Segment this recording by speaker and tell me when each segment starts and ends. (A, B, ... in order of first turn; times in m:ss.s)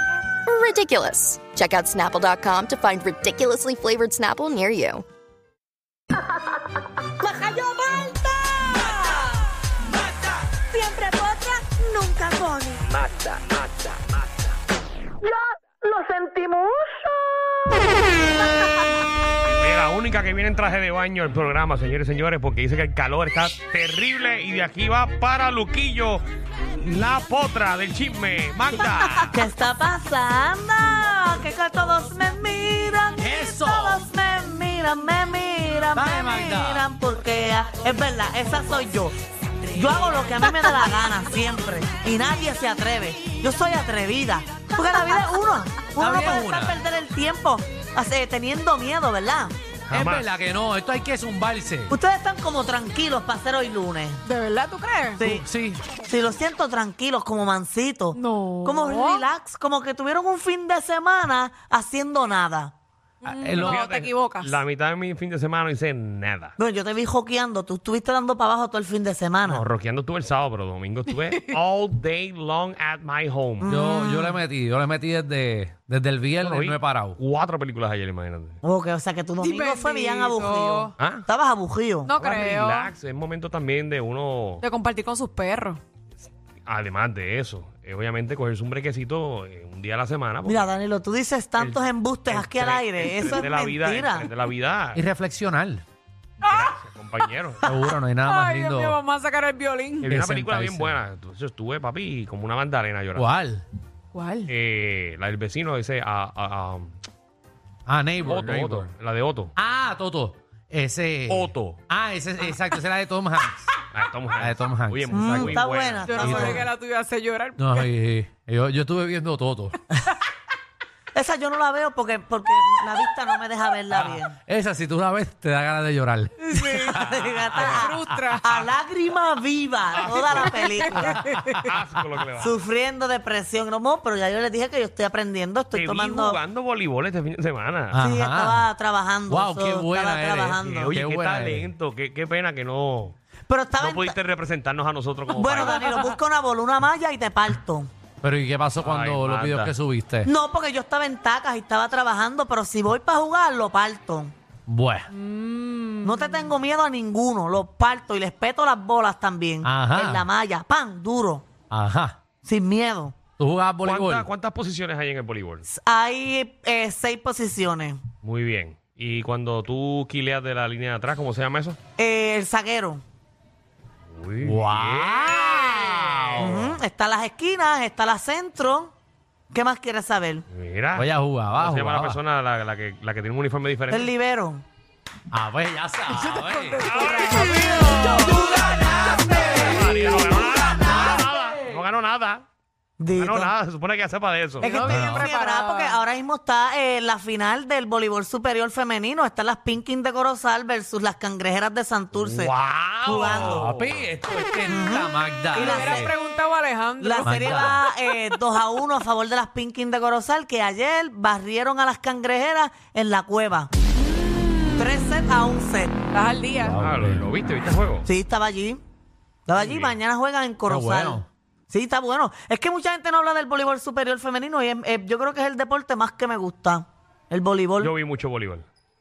0:00.5-0:05.0 A
0:07.2-0:09.4 B
0:10.6-0:12.9 B
0:15.2-0:17.7 B
0:19.5-0:26.2 C
0:26.8-0:29.4 C
0:29.3-0:39.1 B
0:33.2-0:34.0 D
0:35.9-0:36.9 D
0:39.7-0:49.5 B
0:46.0-0:46.8 D
0:49.9-0:50.2 C
0:49.9-0:52.0 D
0:51.9-0:54.2 B
0:54.2-0:55.2 E
0:55.2-0:55.4 B
0:55.2-0:55.8 D
0:56.0-1:02.7 B
0:58.1-0:59.3 E
1:03.2-1:04.6 E
1:03.3-1:03.8 D
1:03.6-1:06.5 C
1:06.6-1:09.6 B
1:09.5-1:13.7 C
1:11.2-1:11.6 E
1:13.6-1:14.4 B
1:13.7-1:17.2 D
1:16.4-1:18.6 C
1:18.6-1:22.1 B
1:19.4-1:20.9 E
1:21.0-1:21.2 C
1:22.0-1:22.9 E
1:22.2-1:24.6 C
1:24.6-1:25.8 E
1:26.6-1:30.7 C
1:30.4-1:34.3 B
1:31.6-1:35.0 C
1:34.9-1:35.8 D
1:36.4-1:36.8 E
1:36.4-1:37.7 C
1:37.6-1:39.0 D
1:38.2-1:40.1 E
1:40.0-1:43.3 C
1:40.0-1:41.0 D
1:43.1-1:43.6 D
1:44.1-1:44.5 E
1:44.5-1:46.9 C
1:47.8-1:48.9 D
1:48.2-1:49.5 C
1:49.6-1:53.6 D
1:51.3-1:51.8 C
1:53.9-1:56.4 C
1:54.4-1:55.6 D
1:55.1-1:56.7 B
1:56.0-1:57.8 E
1:56.2-1:56.6 D
1:57.6-1:59.8 D
2:01.1-2:04.4 B
2:03.9-2:07.8 D
2:06.4-2:07.0 E
2:06.6-2:11.4 B
2:07.6-2:08.7 E
2:09.9-2:11.0 C
2:10.9-2:11.6 E
2:11.6-2:12.6 C
2:12.4-2:16.4 B
2:15.7-2:18.0 C
2:17.9-2:18.7 D
2:18.0-2:21.0 B
2:19.3-2:21.7 D
2:20.8-2:23.2 C
2:23.5-2:24.2 B
2:23.8-2:26.0 C
2:25.3-2:27.9 B
2:28.2-2:30.3 D
2:28.8-2:29.7 C
2:30.2-2:34.3 B
2:34.7-2:35.1 D
2:35.1-2:36.5 E
2:36.0-2:41.4 B
2:39.6-2:40.2 D
2:41.7-2:42.2 D
2:42.4-2:43.1 B
2:43.4-2:44.3 D
2:43.8-2:45.6 C
2:45.7-2:48.0 B
2:48.2-2:51.8 C
2:52.0-2:53.0 B
2:54.1-2:56.7 C
2:54.4-2:56.7 D
2:56.4-2:58.9 B
2:59.5-3:00.4 B
3:00.5-3:04.1 C
3:00.9-3:02.2 D
3:03.9-3:04.6 B
3:05.3-3:07.1 D
3:06.1-3:08.2 E
3:06.8-3:12.4 C
3:08.0-3:09.6 B
3:08.2-3:09.8 D
3:13.0-3:13.5 B
3:13.1-3:14.8 C
3:14.6-3:22.5 B
3:14.6-3:16.0 E
3:14.8-3:15.3 D
3:22.1-3:24.1 C
3:23.0-3:23.7 B
3:23.1-3:26.1 D
3:24.7-3:26.1 B
3:25.5-3:28.3 E
3:27.0-3:33.7 B
3:27.2-3:27.8 D
3:34.0-3:35.4 E
3:34.8-3:36.0 B
3:36.1-3:36.8 E
3:36.6-3:37.3 D
3:36.8-3:38.1 C
3:38.0-3:38.8 B
3:39.5-3:47.9 B
3:39.6-3:40.0 C
3:40.7-3:41.2 D
3:47.8-3:48.7 C